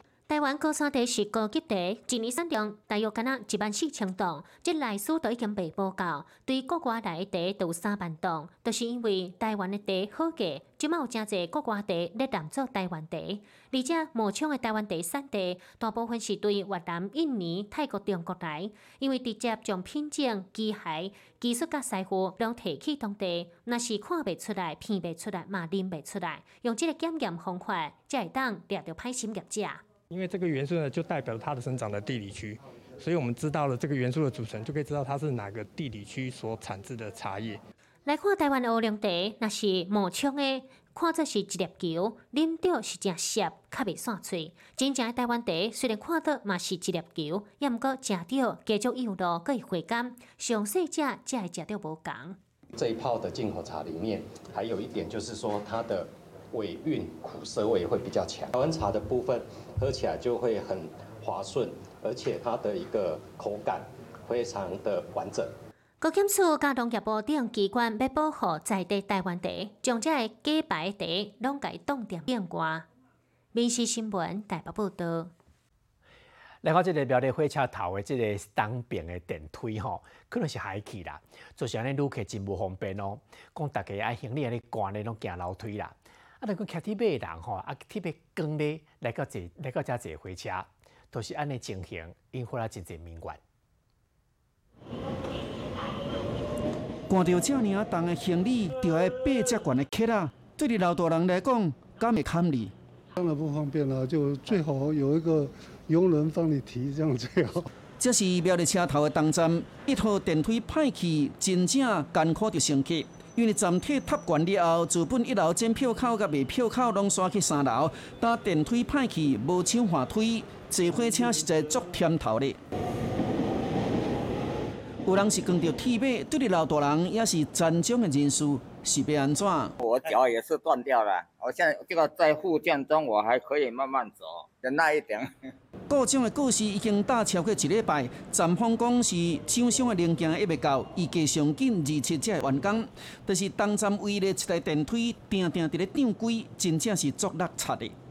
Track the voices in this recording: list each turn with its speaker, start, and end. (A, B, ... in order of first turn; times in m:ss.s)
0:00.3-0:29.8 A
0:30.1-0:37.6 B
0:38.1-0:52.4 A
0:52.8-1:05.6 C
1:06.0-1:12.9 A
1:13.5-1:15.3 A
1:16.6-1:33.4 D
1:37.1-1:42.7 E
1:43.2-1:47.7 F
1:48.0-2:02.6 E
2:05.0-2:09.8 E
2:09.8-2:15.3 G
2:15.9-2:28.0 E